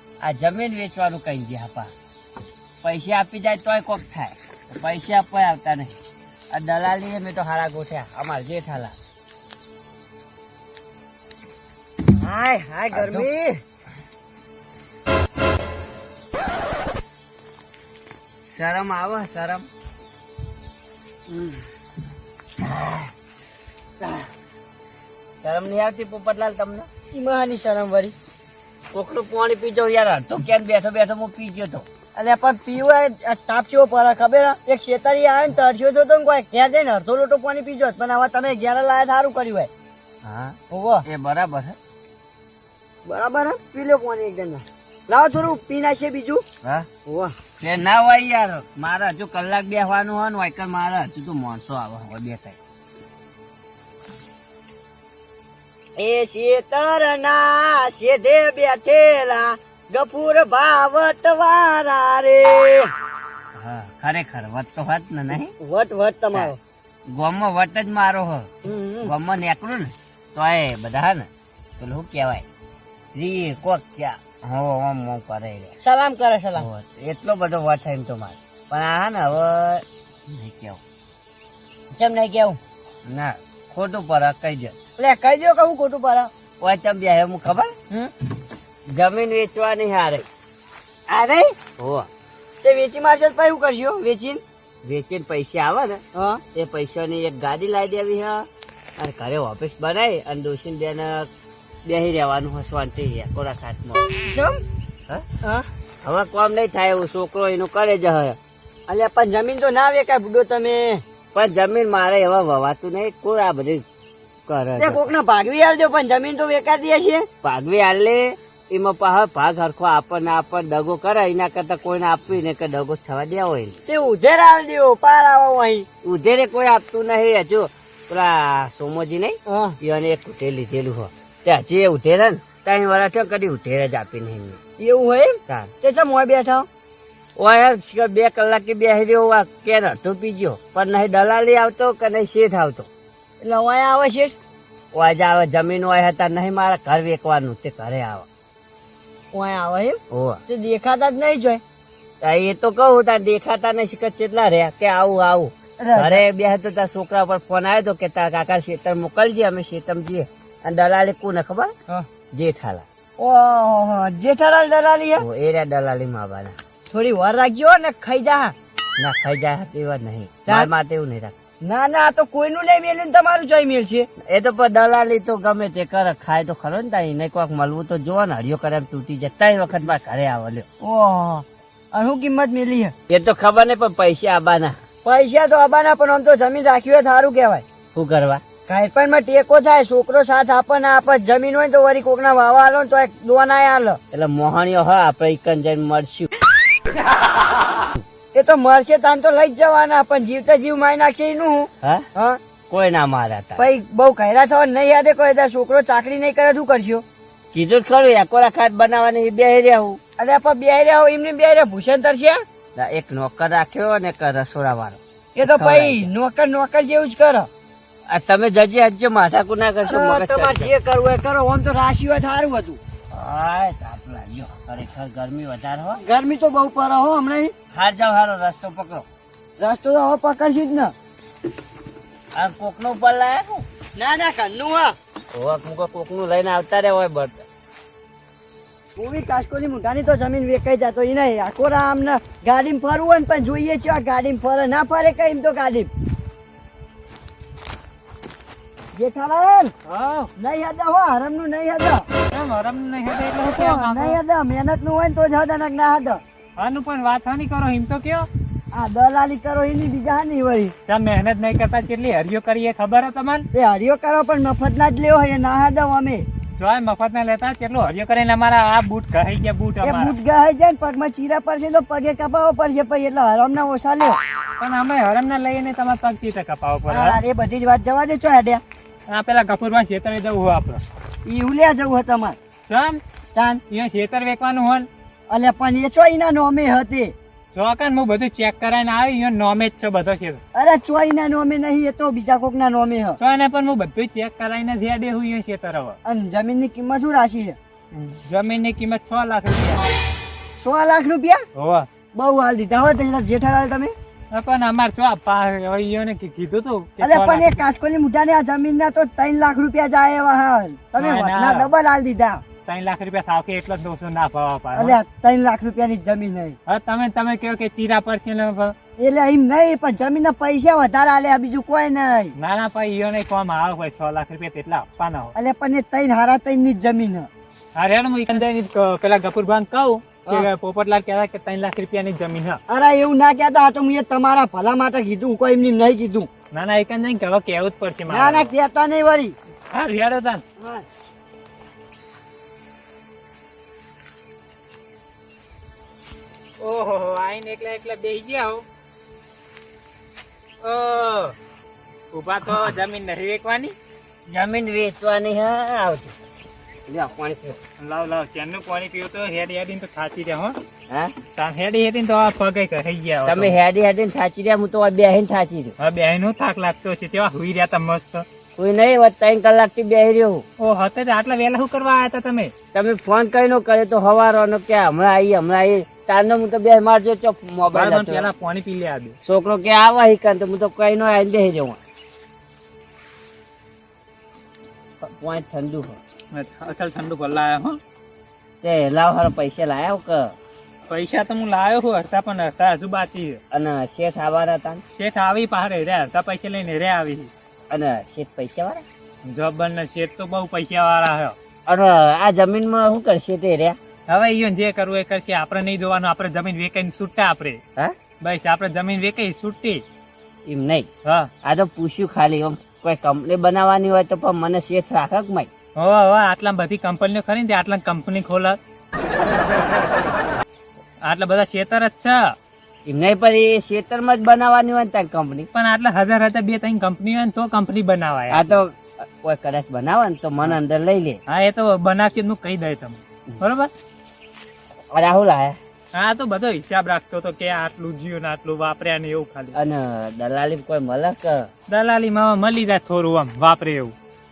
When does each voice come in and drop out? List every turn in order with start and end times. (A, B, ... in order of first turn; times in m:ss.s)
0:00.2-0:01.9 A
0:02.8-0:06.0 A
0:06.5-0:09.0 A
0:12.2-0:13.6 B
0:12.9-0:13.3 A
0:18.5-0:19.7 A
0:21.3-0:21.6 B
0:22.6-0:23.1 A
0:25.4-0:26.9 A
0:27.1-0:28.2 B
0:28.9-0:31.9 A
0:32.2-0:39.7 B
0:40.2-0:41.8 A
0:40.7-0:41.1 B
0:43.1-0:46.4 B
0:47.1-0:47.4 B
0:47.6-0:52.6 A
0:56.0-1:02.9 B
1:03.6-1:05.5 A
1:05.6-1:06.6 B
1:07.1-1:08.5 A
1:08.6-1:09.1 B
1:09.0-1:12.5 A
1:13.1-1:15.8 A
1:15.8-1:16.7 B
1:16.6-1:20.8 A
1:21.9-1:22.6 B
1:23.1-1:24.8 A
1:25.0-1:26.3 B
1:26.6-1:27.8 A
1:28.9-1:30.3 A
1:31.1-1:32.1 A
1:32.6-1:34.4 B
1:34.8-1:36.0 A
1:36.2-1:36.4 B
1:36.5-1:41.3 A
1:41.8-1:44.2 A
1:44.2-1:44.6 B
1:46.0-1:48.4 A
1:48.9-1:51.0 B
1:51.3-1:53.8 A
1:54.5-1:55.1 A
1:54.8-1:57.3 B
1:57.4-2:03.8 A
2:03.9-2:05.9 B
2:06.0-2:14.6 A
2:09.5-2:09.8 B
2:14.8-2:16.7 B
2:17.4-2:22.9 A
2:23.4-2:24.4 B
2:24.9-2:28.3 A
2:29.3-2:31.6 B
2:30.1-2:30.4 A
2:32.2-2:41.7 A
2:35.8-2:36.2 B
2:42.3-2:42.9 A
2:43.2-2:45.2 B
2:45.2-2:46.6 A
2:46.9-2:48.6 B
2:49.0-2:51.4 A
2:50.5-2:50.7 B
2:51.6-2:54.1 B
2:54.2-3:00.7 A
3:00.8-3:02.9 B
3:03.1-3:04.8 A
3:05.0-3:07.6 B
3:07.9-3:08.4 A
3:08.7-3:14.0 B
3:14.1-3:16.3 A
3:18.3-3:22.4 B
3:21.8-3:22.1 A
3:22.7-3:23.7 A
3:23.6-3:27.0 B
3:27.5-3:30.0 A
3:30.2-3:32.4 B
3:32.8-3:36.1 A
3:35.4-3:37.5 B
3:38.1-3:40.7 A
3:39.8-3:42.8 B
3:43.1-3:46.0 A
3:46.0-3:47.5 B
3:47.7-3:49.0 A
3:49.6-3:50.9 B
3:52.4-3:53.7 A
3:54.0-3:55.0 B
3:55.3-3:57.4 A
3:59.0-4:05.9 B
4:09.0-4:09.7 B
4:09.9-4:10.3 C
4:10.4-4:12.1 B
4:12.3-4:14.2 C
4:13.5-4:16.2 B
4:16.6-4:18.3 C
4:18.7-4:20.7 B
4:20.9-4:23.5 C
4:23.5-4:26.3 B
4:26.6-4:30.1 C
4:29.8-4:34.2 B
4:34.6-4:37.2 C
4:36.9-4:38.6 B
4:39.1-4:40.8 C
4:41.2-4:42.4 B
4:42.7-4:43.0 C
4:43.4-4:43.6 B
4:43.7-4:44.9 C
4:45.3-4:47.1 B
4:47.5-4:50.4 C
4:50.6-4:53.2 B
4:53.2-4:56.0 C
4:56.0-4:57.6 B
4:57.9-4:59.9 C
5:00.6-5:01.4 B
5:01.6-5:01.9 C
5:02.2-5:03.9 B
5:04.3-5:07.6 C
5:07.0-5:12.4 B
5:11.0-5:11.7 C
5:12.7-5:15.0 C
5:14.7-5:16.6 B
5:16.7-5:18.8 C
5:19.0-5:22.4 B
5:22.4-5:25.3 C
5:25.4-5:27.3 B
5:27.8-5:32.6 C
5:32.7-5:36.3 B
5:36.5-5:38.5 C
5:38.1-5:39.4 B
5:39.7-5:40.4 C
5:40.6-5:40.8 B
5:46.6-5:48.6 C
5:50.6-5:51.4 C
5:52.1-5:53.8 C
5:52.5-5:52.7 A
5:54.3-5:56.2 A
5:56.9-5:57.6 A
5:57.8-6:00.6 C
6:01.4-6:03.6 C
6:03.2-6:05.8 A
6:05.8-6:08.2 C
6:08.6-6:10.4 A
6:10.6-6:12.5 C
6:12.7-6:18.3 A
6:17.7-6:19.2 C
6:19.2-6:21.8 A
6:25.0-6:26.0 A
6:26.3-6:27.8 C
6:28.6-6:30.4 A
6:30.9-6:33.4 C
6:33.5-6:34.8 A
6:34.9-6:37.3 C
6:37.7-6:38.8 A
6:39.2-6:41.4 C
6:41.7-6:43.8 A
6:44.1-6:47.6 C
6:48.2-6:49.8 C
6:50.5-6:50.9 A
6:51.0-6:51.3 C
6:51.4-6:55.5 A
6:55.8-6:58.6 C
7:01.0-7:02.3 C
7:02.9-7:05.5 A
7:05.5-7:08.6 C
7:08.3-7:11.2 A
7:11.3-7:13.7 C
7:14.9-7:15.6 A
7:15.9-7:19.6 C
7:19.5-7:21.5 A
7:21.7-7:23.9 C